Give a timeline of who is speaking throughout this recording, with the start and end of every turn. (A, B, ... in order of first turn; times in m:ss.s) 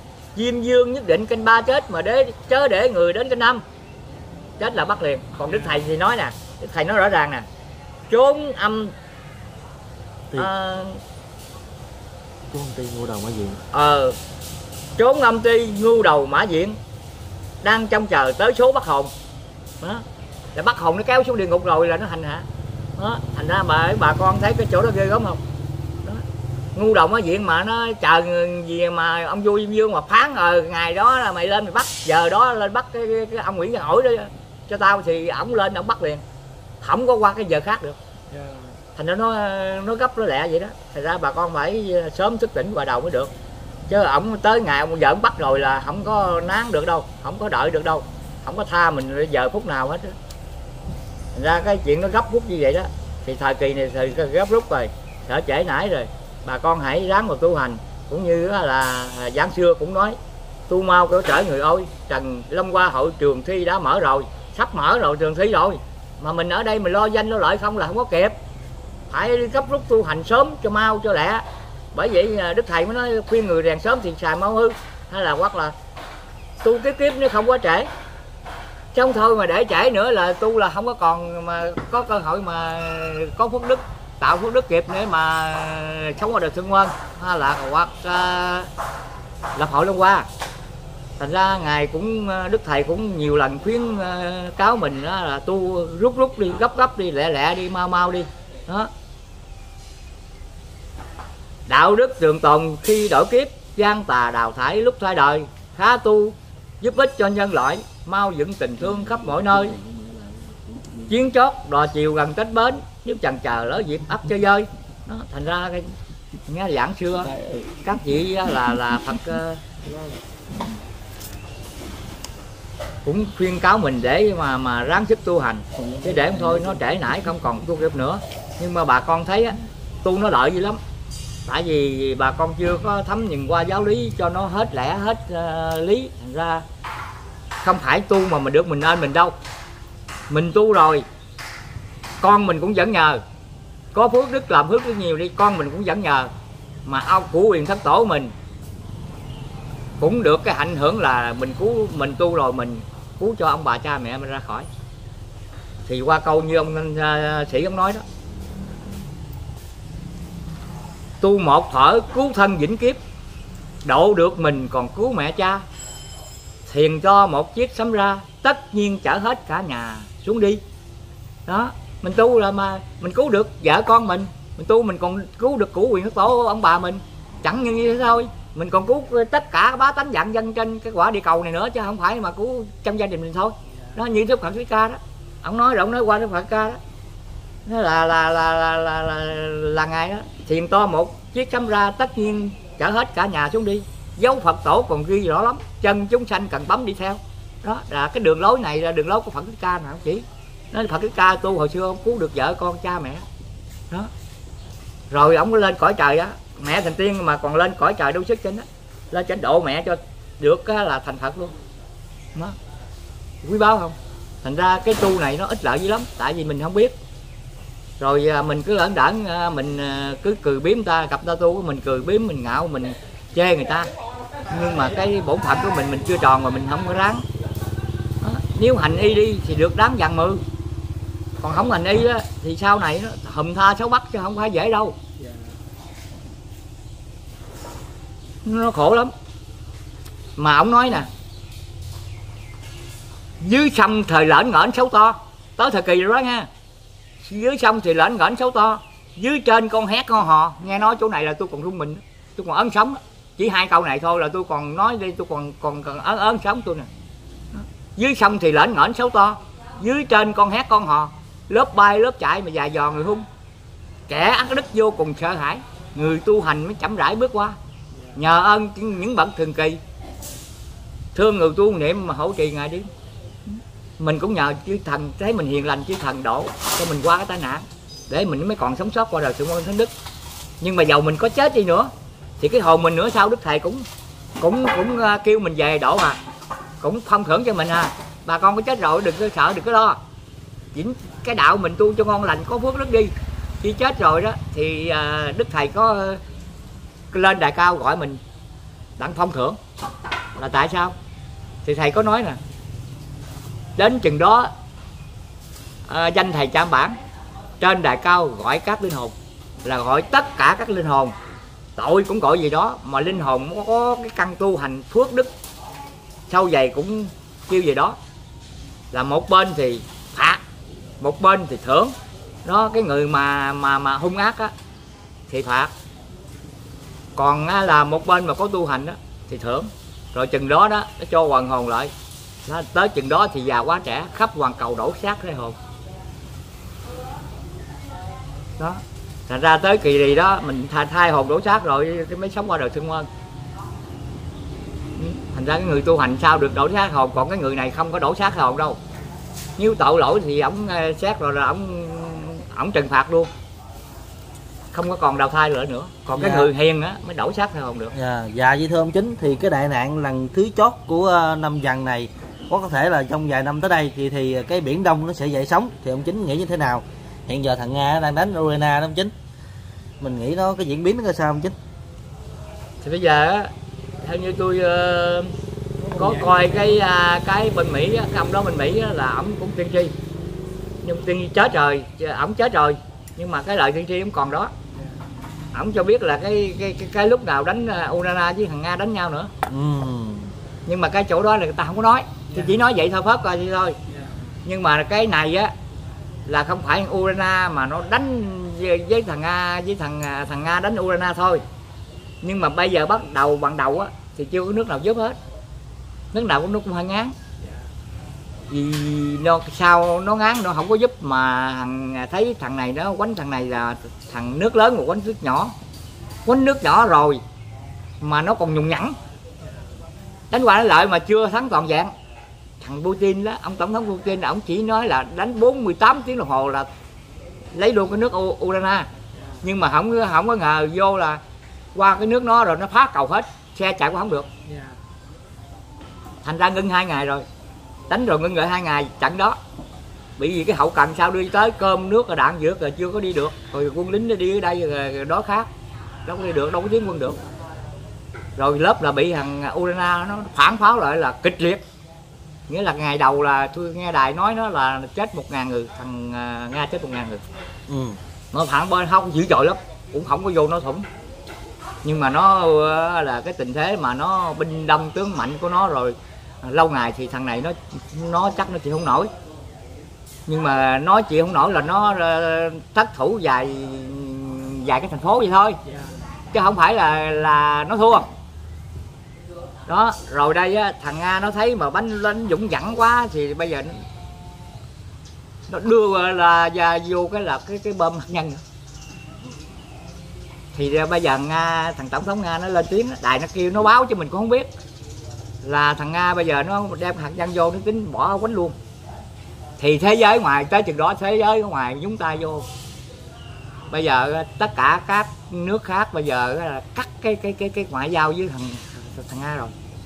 0:00.4-0:03.6 A
0:04.6-0:07.5 A
0:08.1-0:09.0 A
0:10.4-0:11.0 A
0:12.5-0:13.6 B
0:13.7-0:14.2 A
0:15.0-0:16.8 A
0:17.6-0:19.1 A
0:20.6-0:22.5 A
0:23.0-0:25.4 A
0:26.8-0:36.2 A
0:36.8-0:38.0 A
0:38.3-0:38.8 C
0:39.0-0:43.3 A
0:43.9-0:50.2 A
0:51.4-1:00.2 A
1:00.7-1:08.4 A
1:09.1-1:15.8 A
1:16.6-1:17.9 A
1:18.9-1:28.7 A
1:29.6-1:30.3 A
1:31.2-1:38.9 A
1:41.7-1:49.8 A
1:51.1-1:55.9 A
1:56.5-1:59.7 A
2:03.0-2:10.8 A
2:11.5-2:16.6 A
2:17.6-2:19.4 A
2:20.3-2:21.0 A
2:22.2-2:23.2 A
2:23.9-2:26.3 A
2:26.9-2:28.3 A
2:30.0-2:34.7 A
2:35.9-2:38.0 A
2:41.2-2:43.0 A
2:43.8-2:45.6 A
2:46.7-2:50.6 A
2:51.5-3:06.8 A
3:03.7-3:04.0 C
3:07.7-3:23.3 A
3:25.1-3:31.6 A
3:33.4-3:37.0 A
3:38.0-3:43.9 A
3:44.5-3:47.3 A
3:48.2-3:50.4 A
3:51.4-3:55.0 A
3:55.2-3:55.6 C
3:58.4-3:59.1 A
4:00.4-4:01.1 A
4:03.4-4:06.5 A
4:07.2-4:16.9 A
4:17.5-4:23.3 A
4:24.1-4:27.6 A
4:27.9-4:28.2 C
4:28.2-4:29.8 A
4:31.2-4:32.9 A
4:33.5-4:39.9 A
4:40.6-4:43.9 A
4:44.4-4:46.2 A
4:46.8-4:50.0 A
4:50.7-4:56.2 A
4:57.1-4:58.2 A
4:59.0-4:59.6 A
5:00.4-5:01.0 A
5:01.6-5:02.4 A
5:03.8-5:04.5 A
5:05.9-5:07.0 A
5:07.6-5:11.2 A
5:11.8-5:15.3 A
5:16.3-5:18.0 A
5:18.9-5:20.4 A
5:21.0-5:24.5 A
5:25.3-5:25.7 A
5:27.2-5:31.9 A
5:32.5-5:35.6 A
5:38.6-5:43.1 A
5:45.0-5:48.8 A
5:49.6-5:53.3 A
5:54.7-5:57.9 A
5:56.2-5:56.5 B
5:57.9-6:09.1 B
6:10.0-6:11.6 B
6:12.8-6:13.5 A
6:14.0-6:15.4 A
6:15.9-6:16.7 C
6:16.0-6:19.9 A
6:20.8-6:24.5 A
6:24.7-6:25.0 C
6:25.5-6:29.3 A
6:29.5-6:30.3 B
6:30.7-6:33.8 A
6:32.3-6:32.6 C
6:33.9-6:34.2 C
6:34.5-6:35.5 A
6:36.3-6:41.4 A
6:42.2-6:45.2 A
6:46.1-6:47.2 A
6:48.5-6:55.5 A
6:56.3-6:57.2 A
6:58.0-6:59.0 A
6:59.4-6:59.8 C
7:00.3-7:01.9 A
7:02.6-7:06.7 A
7:07.5-7:08.9 A
7:09.1-7:09.4 C
7:09.4-7:11.2 A
7:11.8-7:14.3 A
7:14.4-7:14.8 C
7:16.2-7:17.3 A
7:17.9-7:19.4 A
7:20.2-7:25.5 A
7:26.1-7:27.2 A
7:28.4-7:31.6 A
7:32.5-7:37.2 A
7:37.7-7:38.0 B
7:38.3-7:40.9 A
7:41.8-7:49.1 A
7:50.3-7:55.6 A
7:55.6-7:56.1 C
7:56.3-7:58.1 A
7:59.7-8:03.8 A
8:05.5-8:08.4 A
8:10.5-8:14.5 A
8:15.4-8:18.6 A
8:19.6-8:22.5 A
8:23.7-8:29.6 A